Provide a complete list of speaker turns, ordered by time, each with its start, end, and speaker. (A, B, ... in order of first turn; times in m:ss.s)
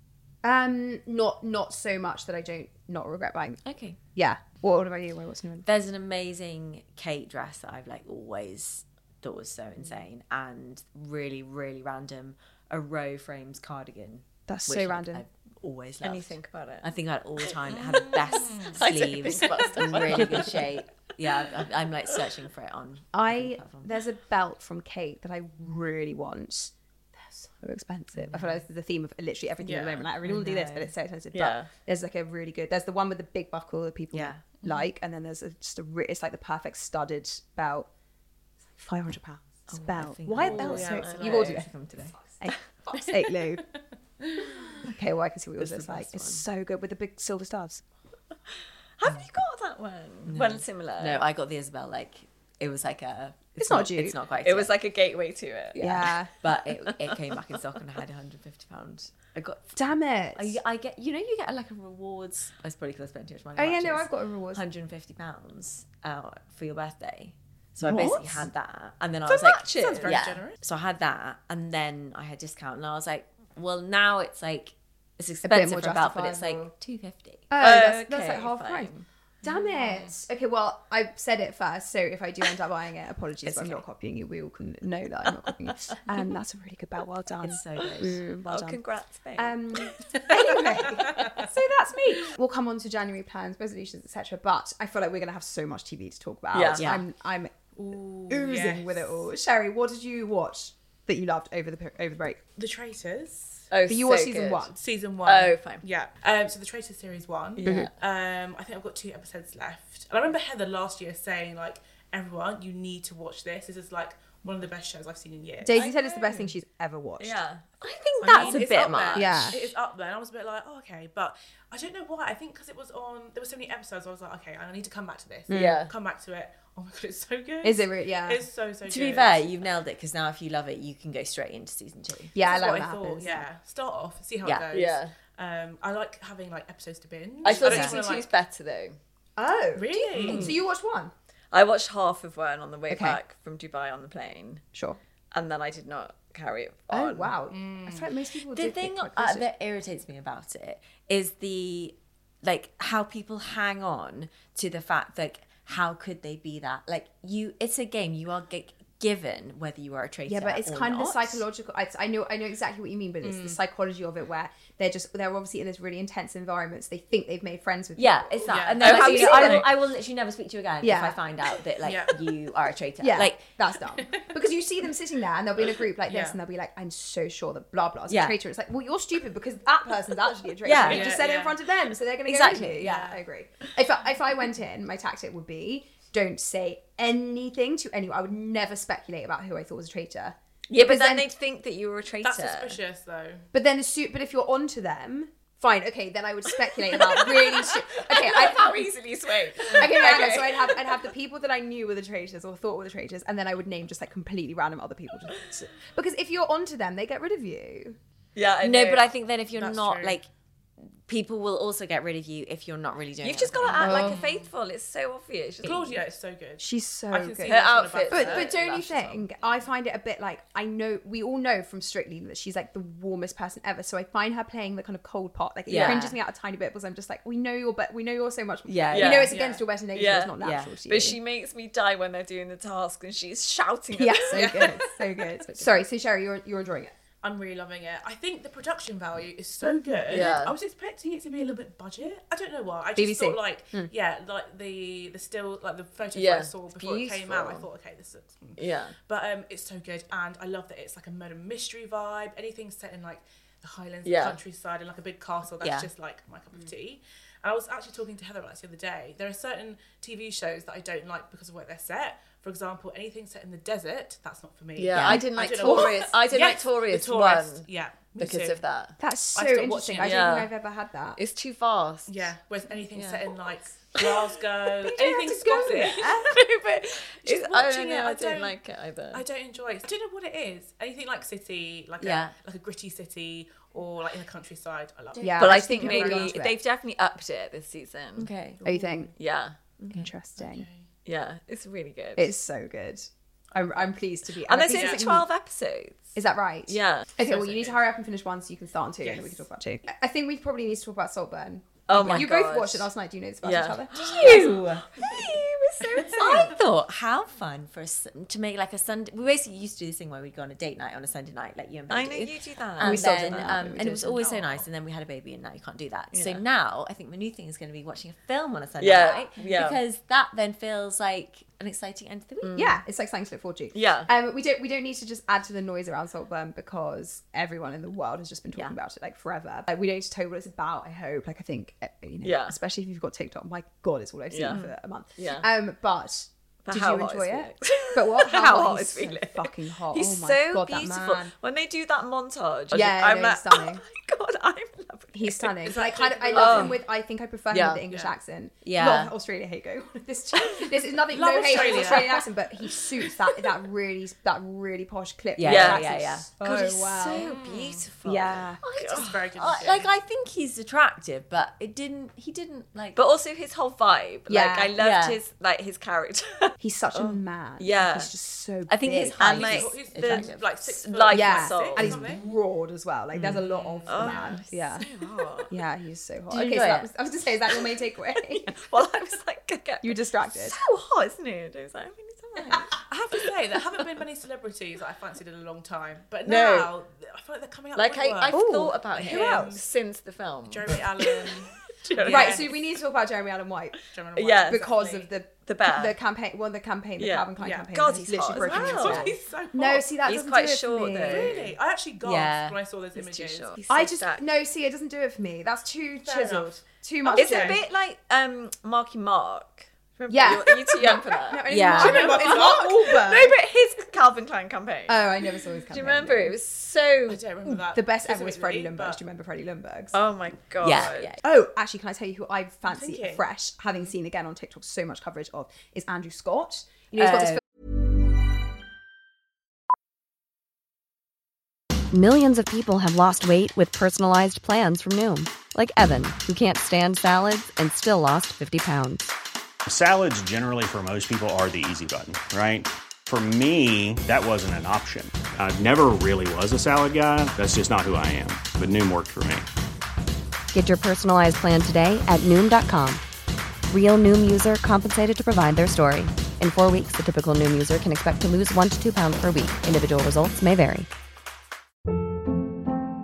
0:00.4-0:03.6 A
0:03.6-0:04.0 B
0:04.1-0:05.7 A
0:05.6-0:23.9 B
0:14.5-0:15.2 A
0:16.0-0:16.9 C
0:17.4-0:20.7 C
0:18.1-0:18.8 D
0:23.1-0:37.9 A
0:29.6-0:30.0 D
0:30.2-0:30.9 B
0:31.3-0:31.7 C
0:34.1-0:34.4 B
0:38.7-0:41.7 A
0:39.7-0:42.2 B
0:40.5-0:41.6 D
0:40.8-0:41.5 C
0:42.2-0:43.6 A
0:44.2-0:44.6 D
0:44.6-0:47.8 A
0:45.6-0:46.3 B
0:49.0-0:51.2 C
0:50.3-0:54.7 B
0:53.6-0:54.2 A
0:54.4-0:56.1 C
0:55.8-0:56.3 A
0:55.8-0:59.8 B
0:59.7-1:00.6 A
1:00.3-1:17.5 B
1:03.6-1:04.6 A
1:07.8-1:08.4 A
1:07.9-1:08.5 C
1:09.3-1:10.6 D
1:09.4-1:10.4 C
1:15.4-1:16.7 A
1:17.5-1:28.8 A
1:17.6-1:19.0 C
1:19.5-1:20.0 D
1:23.4-1:23.8 B
1:27.4-1:28.6 B
1:27.9-1:30.6 C
1:29.3-1:37.7 A
1:30.9-1:31.4 D
1:36.5-1:36.9 C
1:36.8-1:37.0 B
1:37.8-1:39.1 D
1:38.3-1:42.4 A
1:42.6-1:43.7 D
1:43.7-1:44.7 C
1:43.9-1:44.8 A
1:44.8-1:56.4 D
1:45.2-1:45.8 C
1:47.6-1:47.9 C
1:47.6-1:47.9 A
1:55.6-1:57.4 A
1:57.2-1:59.5 C
1:57.9-1:59.4 B
1:58.2-2:09.5 D
1:58.2-1:58.6 A
1:59.1-1:59.6 A
2:05.5-2:05.8 A
2:05.5-2:05.9 C
2:07.6-2:08.4 A
2:08.8-2:12.3 B
2:12.3-2:13.5 A
2:12.4-2:18.3 D
2:14.7-2:15.1 C
2:17.4-2:19.0 C
2:17.5-2:18.0 B
2:19.4-2:21.1 A
2:19.7-2:20.5 D
2:20.2-2:20.5 C
2:21.5-2:24.6 C
2:22.9-2:23.2 A
2:24.7-2:25.0 A
2:25.3-2:27.3 C
2:26.9-2:29.5 A
2:27.5-2:28.1 D
2:28.5-2:41.4 B
2:40.3-2:49.7 A
2:43.2-2:43.6 D
2:48.0-2:53.4 B
2:48.5-2:49.0 D
2:48.7-2:49.7 C
2:50.8-2:51.2 A
2:51.8-2:52.2 D
2:53.0-3:11.3 A
2:54.0-2:54.3 D
2:56.1-2:56.4 D
2:58.1-2:58.4 B
3:00.6-3:01.2 B
3:00.8-3:01.6 D
3:02.3-3:02.8 B
3:02.8-3:03.2 D
3:10.7-3:11.2 B
3:10.8-3:12.6 C
3:12.2-3:13.4 D
3:12.2-3:12.7 B
3:13.5-3:18.9 A
3:16.9-3:20.8 C
3:19.7-3:28.0 A
3:28.3-3:29.1 C
3:28.6-3:30.3 B
3:29.5-3:30.2 D
3:31.1-3:34.1 B
3:33.2-3:36.0 C
3:33.8-3:34.5 D
3:33.8-3:34.2 A
3:35.6-3:38.5 D
3:36.6-3:51.2 A
3:37.4-3:39.2 C
3:45.7-3:46.2 B
3:48.7-3:49.3 B
3:48.9-3:49.3 C
3:49.3-3:49.6 D
3:49.9-3:54.8 C
3:50.4-3:50.7 B
3:53.9-3:56.9 A
3:54.3-3:54.9 D
3:57.2-4:28.6 D
3:59.6-4:00.3 A
4:00.1-4:00.5 C
4:03.0-4:03.9 A
4:06.1-4:07.7 C
4:08.6-4:08.9 C
4:14.0-4:14.4 C
4:24.8-4:27.7 C
4:25.0-4:25.2 B
4:25.0-4:25.9 A
4:28.2-4:29.0 C
4:29.0-4:31.2 A
4:29.3-4:30.4 D
4:30.0-4:30.5 C
4:31.2-4:32.2 C
4:32.1-4:36.2 D
4:32.9-4:33.3 C
4:34.8-4:36.4 A
4:35.9-4:39.2 C
4:37.2-4:38.6 D
4:39.1-4:46.4 D
4:42.0-4:42.3 C
4:45.2-4:46.6 A
4:45.4-4:48.3 C
4:48.2-4:48.6 B
4:48.6-4:49.1 A
4:49.2-4:50.0 C
4:49.9-4:50.7 A
4:50.4-4:50.8 D
4:51.0-4:52.3 C
4:52.2-4:55.3 A
4:54.4-4:56.1 C
4:54.7-4:55.0 D
4:56.1-5:04.6 A
4:56.7-4:57.1 C
4:57.2-4:57.8 D
4:59.0-4:59.4 D
5:01.9-5:02.9 C
5:01.9-5:02.3 B
5:03.4-5:06.6 C
5:03.9-5:05.1 B
5:06.0-5:22.7 B
5:11.9-5:13.8 C
5:12.8-5:14.2 A
5:14.2-5:14.6 D
5:16.1-5:16.4 C
5:18.8-5:19.8 C
5:22.4-5:22.8 C
5:22.5-5:41.3 A
5:23.7-5:24.1 C
5:32.2-5:32.6 C
5:34.3-5:35.5 C
5:36.6-5:45.6 C
5:42.7-5:43.8 A
5:45.1-5:57.3 A
5:45.6-5:46.8 D
5:46.3-5:46.8 C
5:47.5-5:47.8 C
5:47.9-5:48.1 D
5:48.6-5:49.1 B
5:51.1-5:52.2 D
5:51.5-5:52.0 C
5:55.4-5:56.6 B
5:55.4-5:59.6 C
5:57.2-5:57.6 B
5:57.2-5:57.8 D
5:58.0-5:58.6 A
5:58.2-6:03.0 B
5:58.8-5:59.9 D
6:02.9-6:08.1 C
6:04.3-6:04.7 A
6:04.8-6:05.2 B
6:06.6-6:10.1 A
6:08.7-6:10.4 B
6:08.9-6:12.0 C
6:09.4-6:12.2 D
6:11.1-6:14.8 A
6:13.4-6:14.4 D
6:13.9-6:15.5 C
6:15.5-6:18.6 A
6:16.3-6:16.8 B
6:18.5-6:23.2 C
6:19.8-6:20.6 A
6:22.8-6:29.6 D
6:26.2-6:26.7 C
6:27.7-6:31.3 C
6:28.3-6:29.6 A
6:30.5-6:32.5 D
6:31.8-6:32.5 C
6:32.0-6:33.8 A
6:33.9-6:35.1 D
6:34.2-6:34.7 C
6:34.4-6:41.5 A
6:35.4-6:35.9 C
6:37.0-6:39.2 C
6:37.4-6:37.7 D
6:38.3-6:39.9 D
6:40.0-6:41.5 C
6:41.0-6:43.6 D
6:42.0-6:42.6 B
6:43.0-6:44.2 C
6:43.7-6:47.6 A
6:46.0-6:47.6 D
6:47.2-6:55.1 C
6:50.1-6:53.4 A
6:51.5-6:52.1 B
6:51.7-6:53.0 D
6:54.9-6:56.4 A
6:55.7-6:57.2 C
6:57.1-6:59.0 D
6:57.6-7:00.0 A
6:59.9-7:01.2 C
7:00.6-7:01.2 B
7:00.8-7:07.4 A
7:02.7-7:03.2 D
7:07.0-7:07.4 B
7:11.9-7:19.1 E
7:19.6-7:29.5 F
7:30.5-7:33.0 E
7:33.7-7:40.9 E